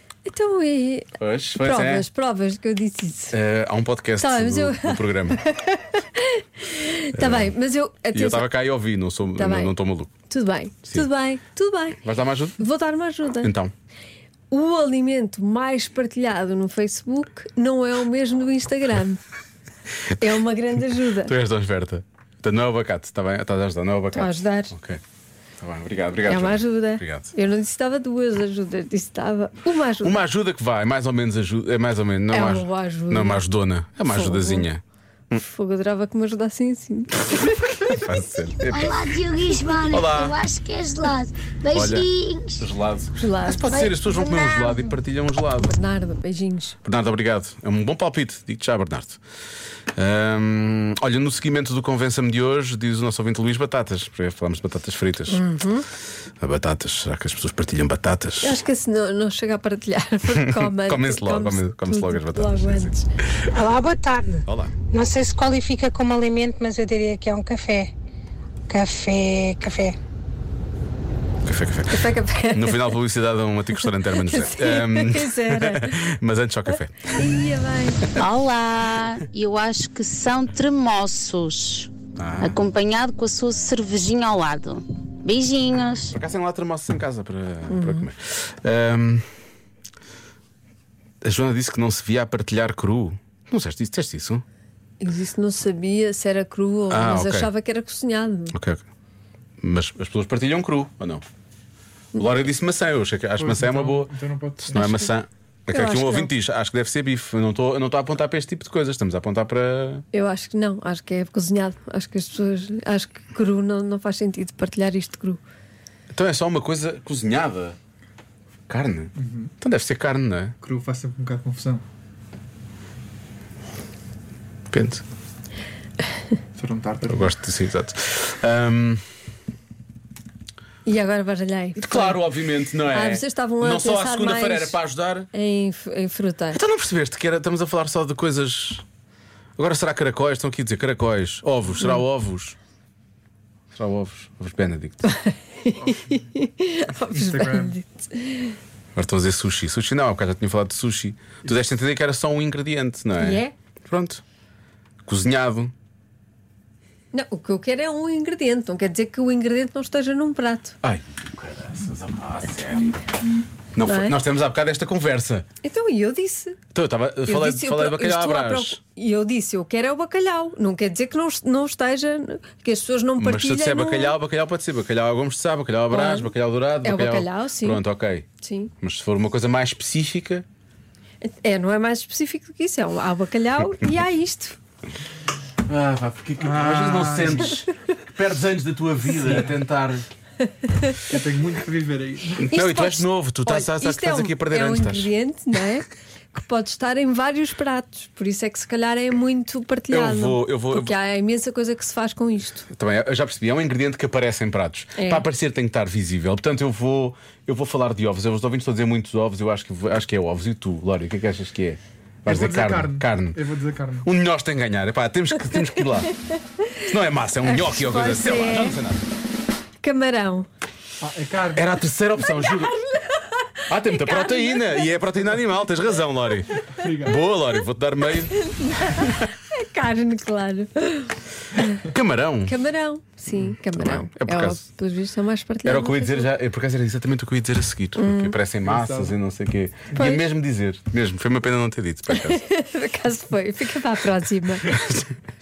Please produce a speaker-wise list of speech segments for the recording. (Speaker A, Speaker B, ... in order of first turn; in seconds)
Speaker A: 0.2-3.3, 4.2-8.5, 9.3-9.7, 10.3-12.0, 12.6-13.5, 14.5-19.2, 20.2-21.3, 24.1-24.7, 26.3-30.2, 32.3-33.4, 34.1-34.7, 35.4-38.0, 43.2-43.9, 45.6-46.8, 55.3-55.9, 58.4-63.0, 71.9-73.0, 73.9-76.0, 77.1-78.1, 87.7-88.1, 95.0-98.5, 104.8-105.1, 105.7-106.3, 110.1-115.4, 130.8-132.2, 132.9-134.8, 135.3-136.6, 145.0-148.6, 153.2-153.5, 157.1-160.8, 163.8-164.2, 165.6-166.6, 167.2-174.1, 175.9-176.3, 176.8-177.8, 178.4-178.7, 181.2-184.6, 190.4-191.0, 192.5-202.7, 204.9-205.2, 217.4-218.8, 219.8-220.5, 222.4-223.2, 223.9-224.8, 228.4-231.7, 232.4-236.3, 238.0-238.3, 239.9-240.2, 242.1-244.7
Speaker B: 1.2-2.0, 3.3-5.4, 7.1-7.5, 8.1-10.1, 12.0-12.6, 13.4-13.7, 21.2-25.0, 25.6-27.3, 30.0-35.4, 37.9-39.0, 39.9-40.4, 41.7-45.7, 46.8-49.2, 50.0-55.4, 56.4-58.6, 60.3-63.5, 64.5-64.7, 71.4-77.1, 82.2-82.6, 86.1-89.2, 91.2-94.4, 96.9-97.5, 98.5-98.8, 99.6-101.2, 102.1-104.1, 104.6-110.0, 116.1-117.8, 118.7-120.5, 124.7-125.0, 127.1-129.0, 131.8-135.3, 136.5-138.8, 139.6-142.6, 143.7-145.0, 148.9-154.2, 155.0-155.7, 160.8-163.0, 163.7-165.4, 166.7-168.8, 173.2-178.2, 178.8-180.4, 185.7-190.1, 192.4-195.1, 199.9-200.9, 202.7-213.4, 214.0-216.1, 216.8-219.0, 221.5-222.8, 223.7-228.3, 231.9-232.6, 233.3-234.6, 235.6-242.4, 244.7-245.1
Speaker C: 38.7-42.6, 43.9-44.8
Speaker D: 63.5-67.9, 68.7-70.0
Speaker E: 78.2-86.1
Speaker F: 103.4-105.0, 119.2-119.5, 120.6-121.8, 126.6-127.3, 145.8-146.2, 147.1-147.7, 186.4-187.5, 191.1-192.5, 212.2-214.1, 221.0-221.8, 226.7-227.2, 238.7-239.1